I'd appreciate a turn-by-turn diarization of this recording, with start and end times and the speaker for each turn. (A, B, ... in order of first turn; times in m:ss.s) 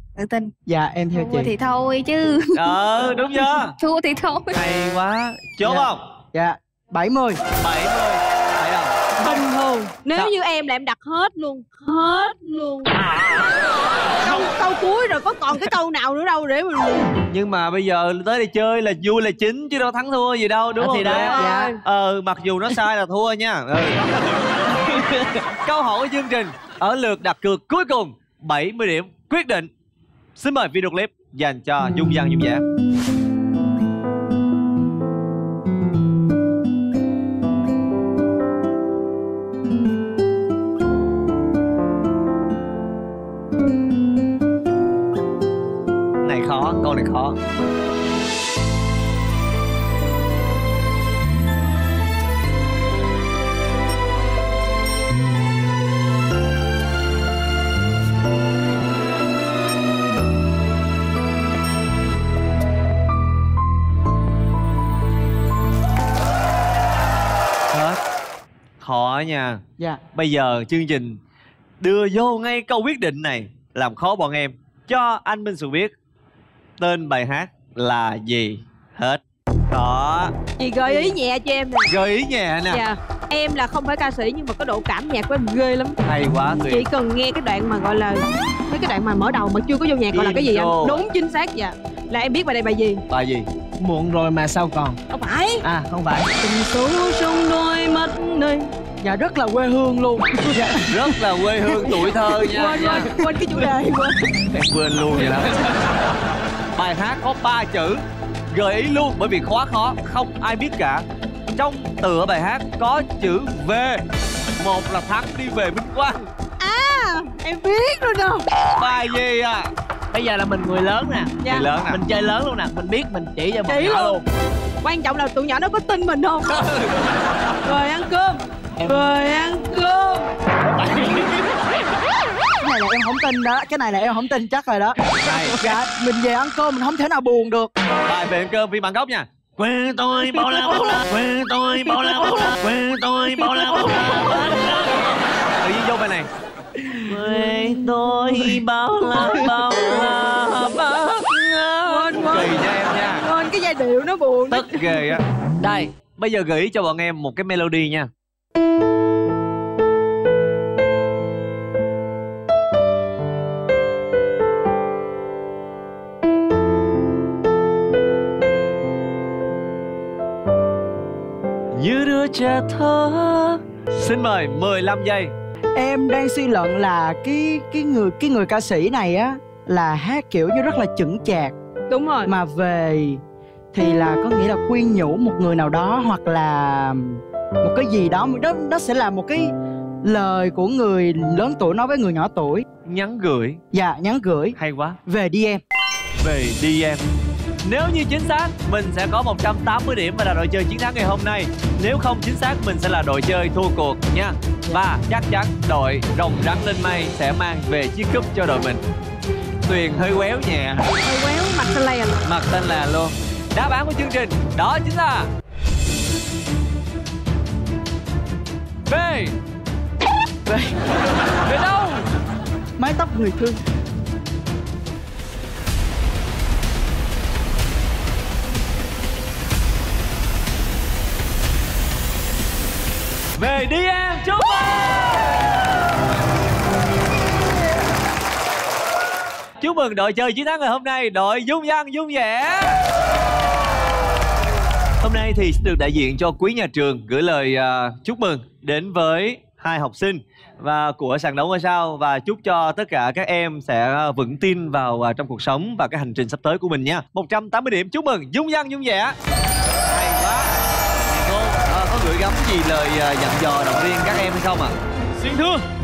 0:00.2-0:00.5 A
0:00.7-0:01.5 B
0:01.1-0:04.6 A
0:02.6-0:03.8 C
0:04.5-0:06.0 C
0:05.6-0:07.4 B
0:07.6-0:09.4 C
0:09.2-0:13.0 D
0:14.2-0:17.2 D
0:17.3-0:24.5 C
0:20.8-0:21.4 E
0:21.2-0:21.8 D
0:21.4-0:21.7 B
0:24.8-0:25.5 E
0:25.6-0:29.7 C
0:30.4-0:32.6 C
0:46.2-0:47.4 C
1:07.7-1:08.0 C
1:08.8-1:09.6 C
1:10.1-1:11.2 C
1:11.8-1:15.9 C
1:16.8-1:20.3 C
1:20.6-1:21.9 D
1:21.9-1:22.8 C
1:22.7-1:26.0 D
1:26.0-1:26.9 C
1:26.7-1:33.0 D
1:30.1-1:31.0 C
1:33.1-1:33.5 C
1:33.8-1:35.0 E
1:35.1-1:35.6 D
1:35.6-1:36.3 E
1:36.4-1:38.7 D
1:39.0-1:41.0 B
1:40.9-1:43.1 C
1:41.8-1:44.2 D
1:43.2-1:44.0 B
1:44.5-1:45.5 C
1:46.8-1:51.0 C
1:51.6-1:54.0 C
1:54.6-1:56.2 C
1:56.6-1:58.5 D
1:58.8-1:59.7 C
2:00.1-2:01.4 E
2:01.4-2:01.7 D
2:01.5-2:02.0 C
2:01.9-2:04.2 E
2:03.7-2:04.2 D
2:04.8-2:06.6 D
2:06.5-2:06.9 C
2:07.6-2:10.3 D
2:10.6-2:11.6 E
2:12.6-2:17.7 B
2:15.2-2:15.6 C
2:18.1-2:24.9 C
2:20.4-2:20.7 E
2:21.9-2:22.2 E
2:23.5-2:24.9 E
2:25.6-2:26.3 C
2:27.0-2:33.3 C
2:31.9-2:35.2 D
2:34.5-2:38.1 C
2:51.8-2:55.3 C
2:55.8-3:01.5 B
3:01.9-3:02.3 D
3:02.3-3:03.2 B
3:03.7-3:09.5 B
3:10.0-3:12.6 B
3:12.8-3:13.6 C
3:13.7-3:15.6 B
3:14.6-3:15.0 C
3:16.2-3:17.0 C
3:17.6-3:28.8 C
3:29.7-3:30.9 C
3:31.0-3:32.2 D
3:32.2-3:35.3 C
3:38.9-3:39.4 C
3:40.5-3:40.7 B
3:41.4-3:42.1 C
3:42.8-3:43.6 B
3:53.4-3:55.6 C
3:59.6-4:02.8 C
4:05.0-4:19.2 C
4:19.9-4:20.5 C
4:21.1-4:24.8 C
4:25.2-4:25.6 E